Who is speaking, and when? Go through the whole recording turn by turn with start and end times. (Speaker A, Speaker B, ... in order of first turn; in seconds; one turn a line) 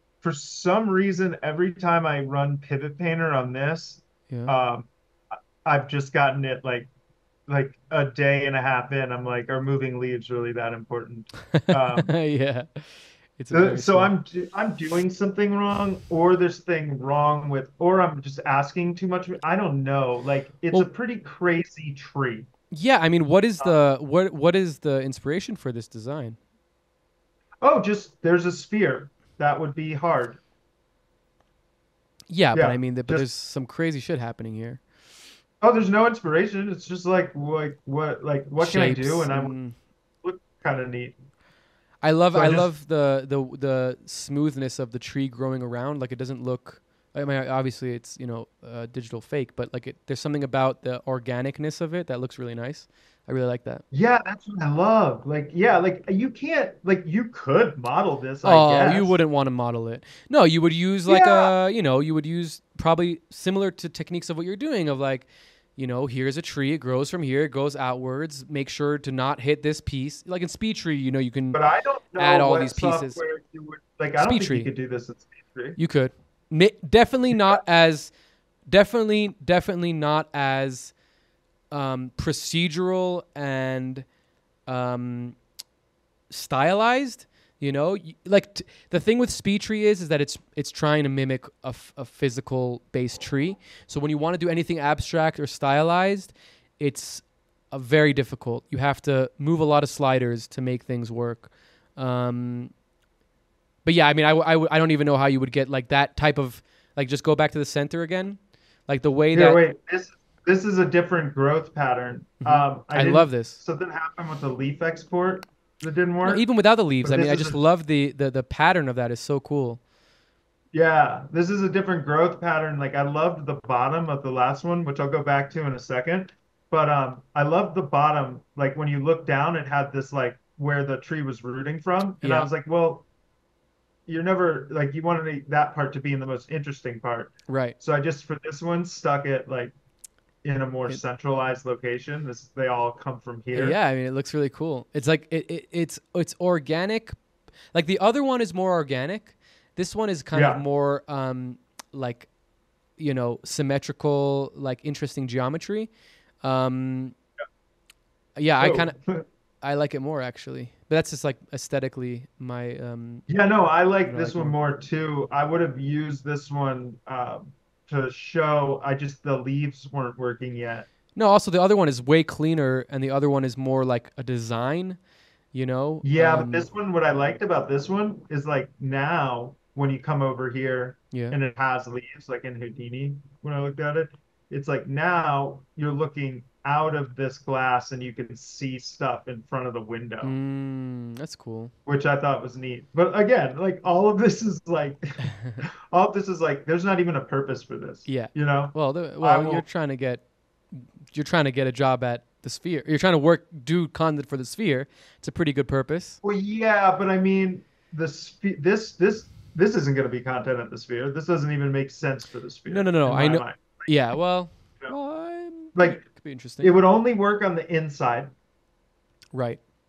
Speaker A: 0.2-4.9
Speaker B: 4.3-4.5
Speaker A: 5.6-6.9
Speaker A: 7.5-12.1
Speaker B: 11.5-14.1
Speaker A: 13.5-22.5
Speaker B: 22.7-26.4
Speaker A: 27.6-30.4
Speaker B: 32.3-34.8
Speaker A: 32.5-33.3
Speaker A: 35.6-39.5
Speaker B: 38.6-39.8
Speaker A: 40.2-41.2
Speaker B: 42.0-53.8
Speaker A: 42.3-42.7
Speaker A: 53.9-59.2
Speaker B: 58.4-71.6
Speaker A: 61.1-61.5
Speaker A: 71.5-75.8
Speaker B: 72.2-73.2
Speaker B: 74.2-74.7
Speaker B: 75.8-78.1
Speaker A: 77.3-77.6
Speaker B: 78.7-80.9
Speaker B: 81.7-84.1
Speaker B: 84.7-85.4
Speaker B: 86.3-102.7
Speaker B: 103.8-109.6
Speaker A: 109.3-116.5
Speaker B: 112.4-113.6
Speaker B: 116.2-119.8
Speaker A: 117.0-117.6
Speaker A: 120.7-133.1
Speaker B: 132.2-132.5
Speaker A: 134.1-139.7
Speaker B: 137.5-137.8
Speaker A: 140.4-143.8
Speaker B: 143.5-147.2
Speaker B: 147.7-152.3
Speaker A: 150.3-150.6
Speaker B: 153.0-155.9
Speaker B: 156.4-157.2
Speaker B: 158.4-159.0
Speaker A: 158.6-159.2
Speaker B: 159.6-163.3
Speaker A: 163.3-170.9
Speaker B: 164.1-164.6
Speaker B: 171.2-175.0
Speaker B: 175.5-176.7
Speaker A: 176.0-190.4
Speaker B: 190.2-191.7
Speaker A: 191.9-199.7
Speaker B: 195.3-195.6
Speaker B: 198.1-206.2
Speaker A: 206.2-213.8
Speaker B: 212.7-216.7
Speaker A: 215.8-216.0
Speaker A: 216.6-218.3
Speaker B: 219.3-219.6